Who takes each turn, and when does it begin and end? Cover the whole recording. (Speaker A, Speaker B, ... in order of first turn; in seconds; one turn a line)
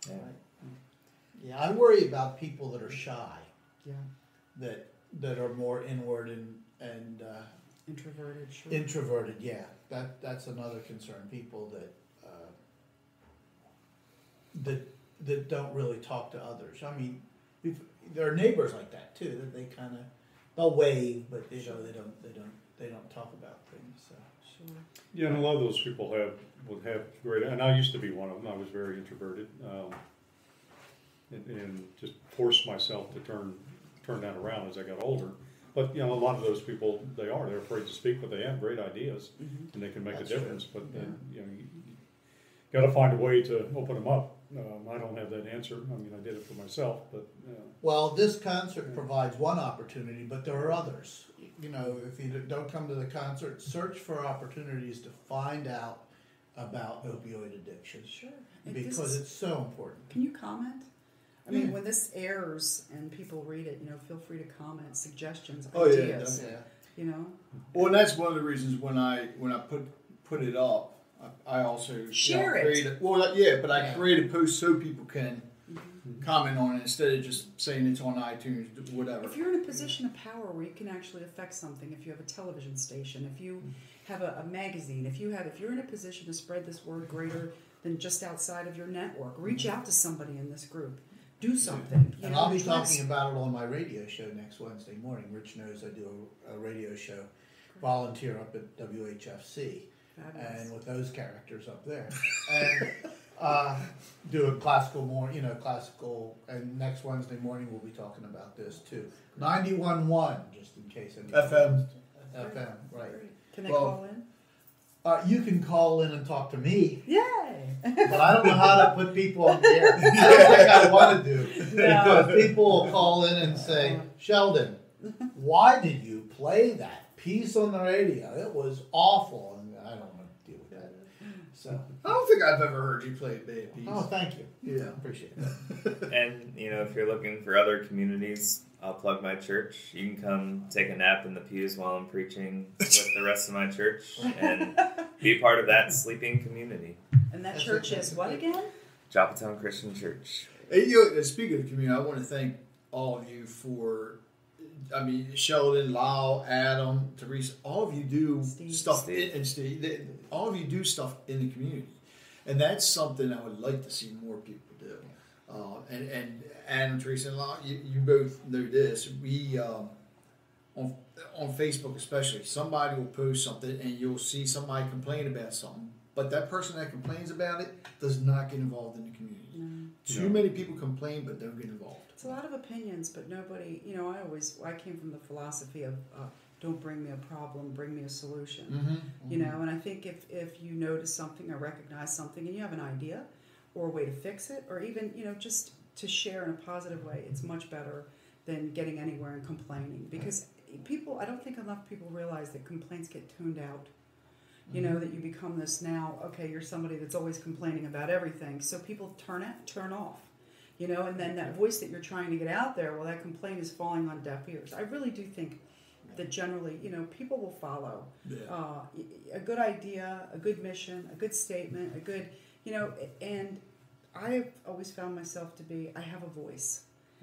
Speaker A: 0.1-0.4
Speaker A: 1.3-3.5
Speaker A: 4.5-7.5
Speaker B: 7.9-8.9
Speaker A: 8.7-12.5
Speaker A: 14.5-24.2
Speaker B: 21.6-21.9
Speaker B: 24.4-24.9
Speaker C: 25.1-30.0
Speaker C: 31.3-42.0
Speaker B: 39.4-39.7
Speaker A: 40.1-41.1
Speaker C: 42.7-47.8
Speaker A: 47.8-58.1
Speaker B: 58.0-59.2
Speaker A: 58.6-60.1
Speaker B: 60.1-60.9
Speaker B: 61.4-67.9
Speaker D: 61.5-61.7
Speaker D: 65.7-66.5
Speaker A: 66.3-66.6
Speaker D: 67.7-75.5
Speaker B: 72.1-72.9
Speaker B: 75.7-76.0
Speaker D: 76.2-79.4
Speaker B: 79.2-93.0
Speaker A: 92.2-113.2
Speaker B: 100.2-100.7
Speaker D: 111.3-111.8
Speaker B: 112.3-114.3
Speaker D: 113.7-113.9
Speaker A: 115.0-117.0
Speaker B: 117.0-118.8
Speaker A: 118.0-124.8
Speaker B: 119.4-123.0
Speaker D: 120.0-121.1
Speaker D: 121.8-122.2
Speaker B: 123.5-124.0
Speaker A: 125.3-130.9
Speaker A: 131.5-131.9
Speaker D: 132.0-134.1
Speaker A: 133.8-135.6
Speaker D: 134.6-136.0
Speaker E: 136.1-147.0
Speaker B: 144.2-145.0
Speaker B: 147.3-148.7
Speaker A: 147.5-148.4
Speaker E: 149.1-150.6
Speaker D: 150.7-169.9
Speaker B: 158.4-159.1
Speaker E: 159.0-159.3
Speaker D: 170.7-182.2
Speaker B: 179.5-179.9
Speaker C: 180.1-180.5
Speaker B: 182.2-203.9
Speaker D: 188.7-189.5
Speaker B: 204.7-223.6
Speaker D: 218.2-218.5
Speaker B: 224.1-226.8